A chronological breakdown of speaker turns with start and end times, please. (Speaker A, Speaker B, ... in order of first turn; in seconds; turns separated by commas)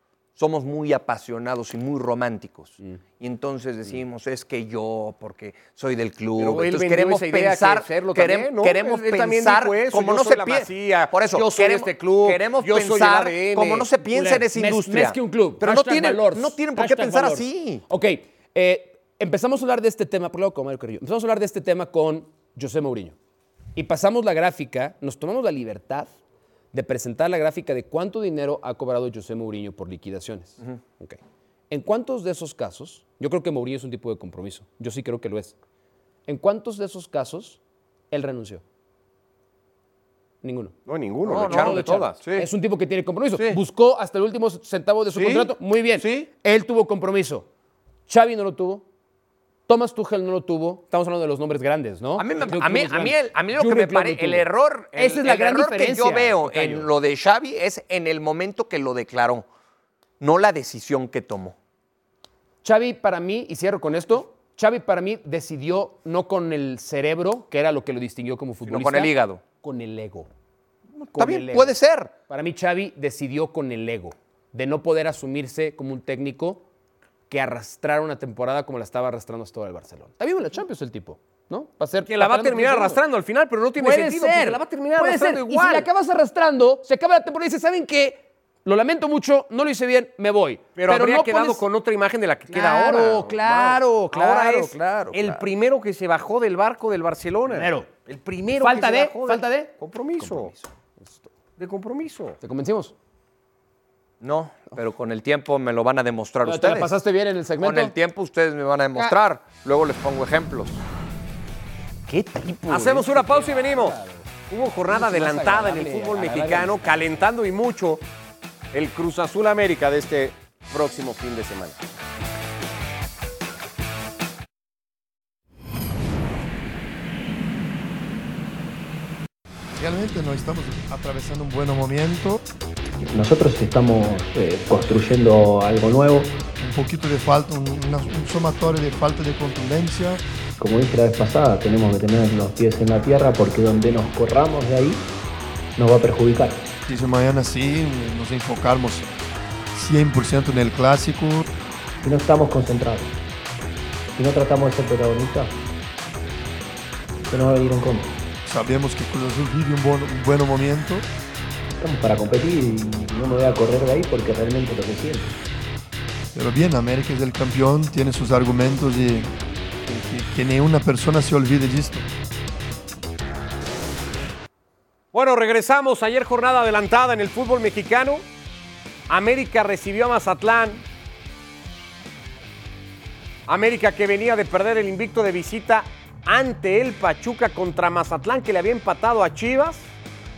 Speaker A: 0.4-17.8, Speaker B: 6.4-13.9, Speaker C: 14.1-23.1, Speaker C: 23.8-26.1, Speaker C: 26.7-35.5, Speaker C: 36.3-37.6, Speaker C: 38.1-38.6, Speaker C: 40.4-40.7, Speaker B: 40.9-42.0, Speaker A: 41.2-42.5, Speaker C: 41.3-47.5, Speaker A: 45.1-45.5, Speaker A: 46.0-46.3, Speaker C: 48.1-48.9, Speaker C: 49.7-56.9, Speaker A: 52.1-59.5, Speaker A: 60.2-61.6, Speaker C: 62.6-70.3, Speaker A: 68.7-69.4, Speaker A: 71.0-72.1, Speaker C: 71.1-71.8, Speaker C: 72.3-76.6, Speaker C: 77.3-83.0, Speaker B: 82.1-85.9, Speaker C: 83.8-91.6, Speaker B: 90.8-100.5, Speaker C: 92.5-95.5, Speaker C: 97.5-97.9, Speaker C: 98.6-101.3, Speaker B: 101.6-102.4, Speaker C: 102.4-102.9, Speaker A: 104.2-106.9, Speaker C: 106.4-107.9, Speaker A: 107.6-110.8, Speaker C: 112.1-114.3, Speaker B: 112.7-114.0, Speaker B: 114.5-118.0, Speaker C: 114.9-117.1, Speaker B: 118.7-121.8, Speaker D: 129.8-132.4, Speaker E: 133.0-136.4, Speaker D: 136.6-140.2, Speaker E: 140.6-145.1, Speaker E: 145.8-146.6, Speaker D: 146.9-149.1, Speaker D: 149.7-151.5, Speaker E: 152.0-153.1, Speaker E: 154.2-155.5, Speaker E: 157.3-158.1, Speaker D: 158.4-161.1, Speaker E: 161.8-165.3, Speaker D: 166.3-169.3, Speaker D: 169.9-172.1, Speaker B: 175.1-178.2, Speaker B: 179.1-180.8, Speaker B: 183.5-189.9